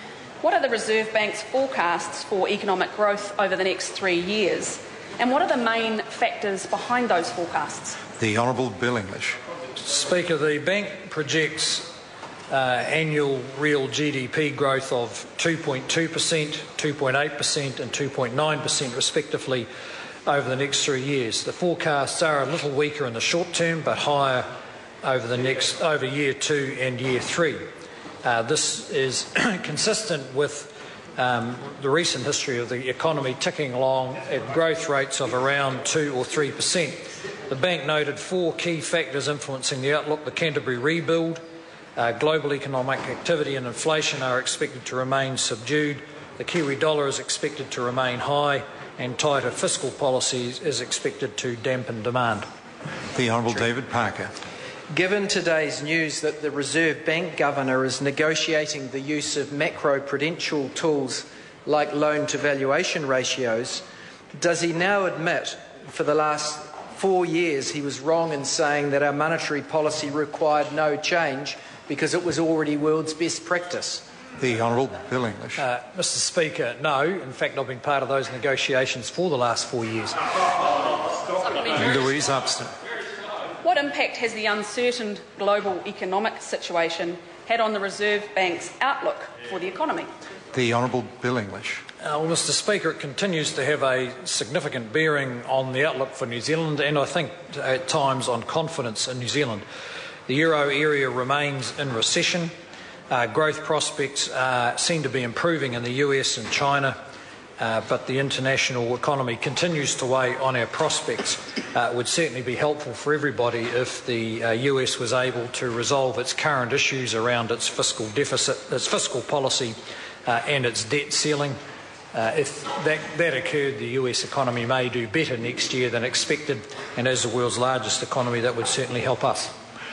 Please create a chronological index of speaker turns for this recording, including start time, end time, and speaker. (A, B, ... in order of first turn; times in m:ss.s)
0:00.4-0:08.0 A
0:08.2-0:09.4 B
0:09.8-0:11.9 C
0:12.5-0:19.7 C
0:20.2-0:24.5 C
0:25.0-0:27.6 C
0:28.2-0:41.4 C
0:42.0-0:52.5 C
0:53.1-0:54.4 B
0:54.9-1:14.0 D
1:14.4-1:15.6 B
1:15.6-1:20.2 C
1:21.6-1:22.7 B
1:23.6-1:30.1 A
1:30.5-1:31.8 B
1:32.0-1:39.6 C
1:40.3-1:42.5 C
1:43.1-1:47.0 C
1:47.6-1:59.7 C
2:00.2-2:01.6 C
2:02.1-2:09.5 C